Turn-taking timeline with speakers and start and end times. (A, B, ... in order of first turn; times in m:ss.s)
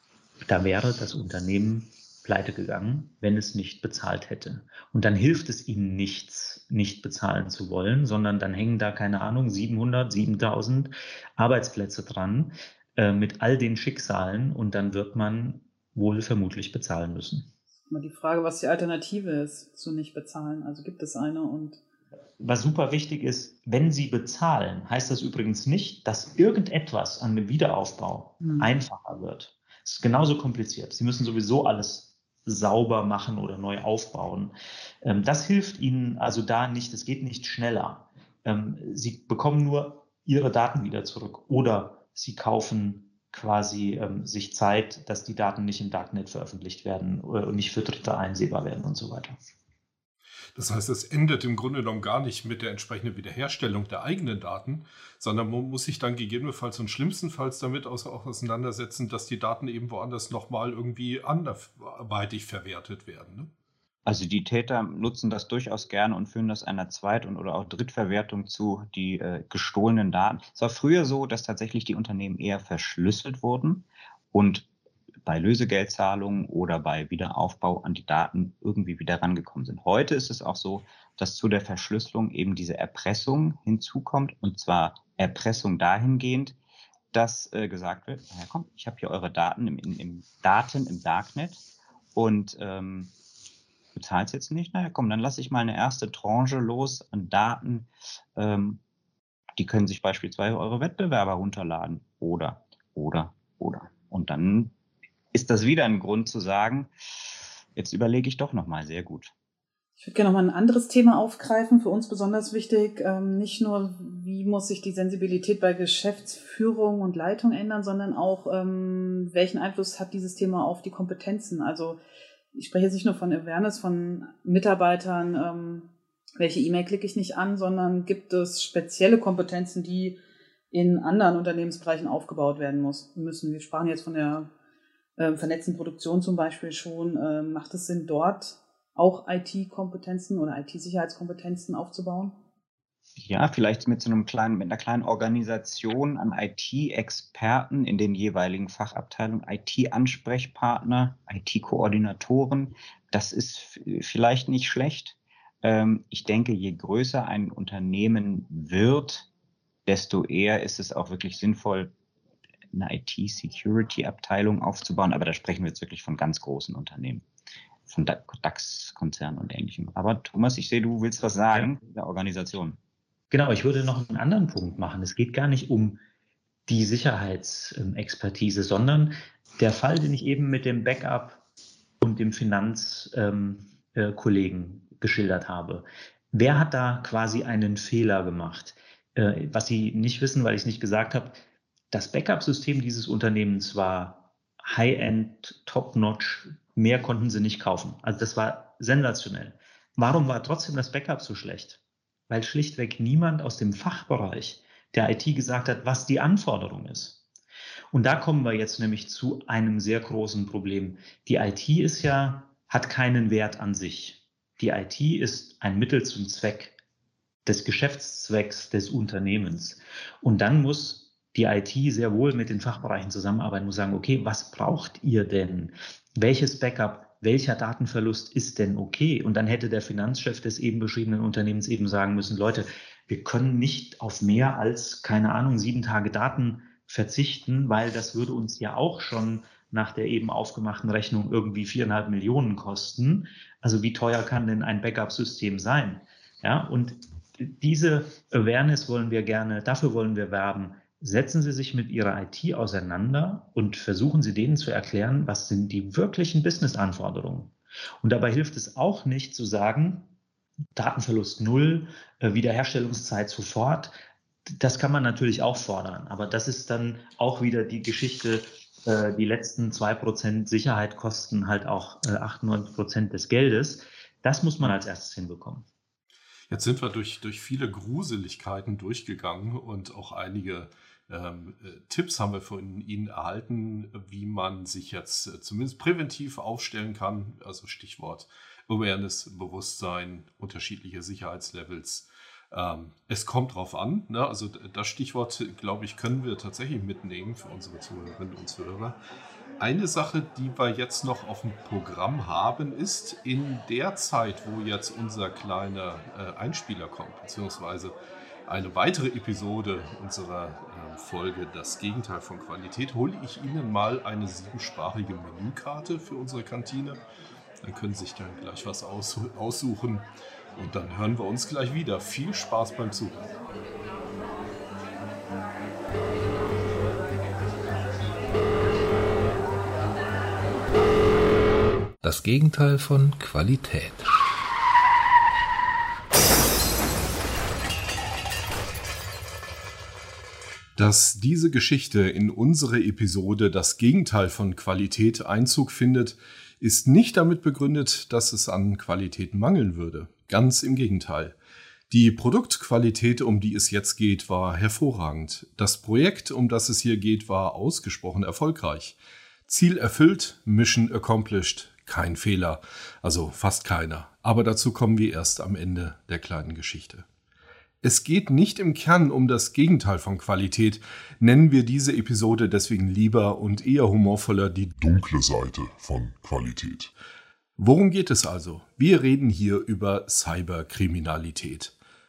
0:00.5-0:17.5 A
0:17.9-0:21.8 B
0:22.4-0:49.4 A
0:28.4-0:28.7 B
0:50.5-1:03.5 C
1:04.0-1:14.7 D
1:15.2-1:26.6 D
1:27.1-1:31.6 D
1:32.1-1:33.1 D
1:33.9-1:38.8 D
1:39.6-1:44.7 D
1:45.3-1:46.9 D
1:47.8-1:49.3 D
1:50.0-2:02.0 B
2:02.5-2:10.2 B
2:10.7-2:14.5 B
2:15.2-2:22.4 B
2:23.2-2:39.3 D
2:39.8-2:41.9 D
2:42.7-2:47.2 D
2:47.9-2:52.8 D
2:53.3-2:56.0 A
2:56.7-3:01.4 A
3:02.0-3:27.2 A
3:27.9-3:36.8 A
3:37.4-4:20.1 A
4:20.7-4:24.0 A
4:24.5-4:35.6 A
4:36.5-4:59.0 C
4:59.6-5:07.9 C
5:08.5-5:17.0 C
5:17.6-5:23.2 C
5:32.0-5:34.1 E
5:40.8-5:51.3 C
5:51.9-5:58.9 C
5:59.5-6:07.0 C
6:07.8-6:14.9 C
6:14.8-6:16.9 F
6:17.6-6:21.7 C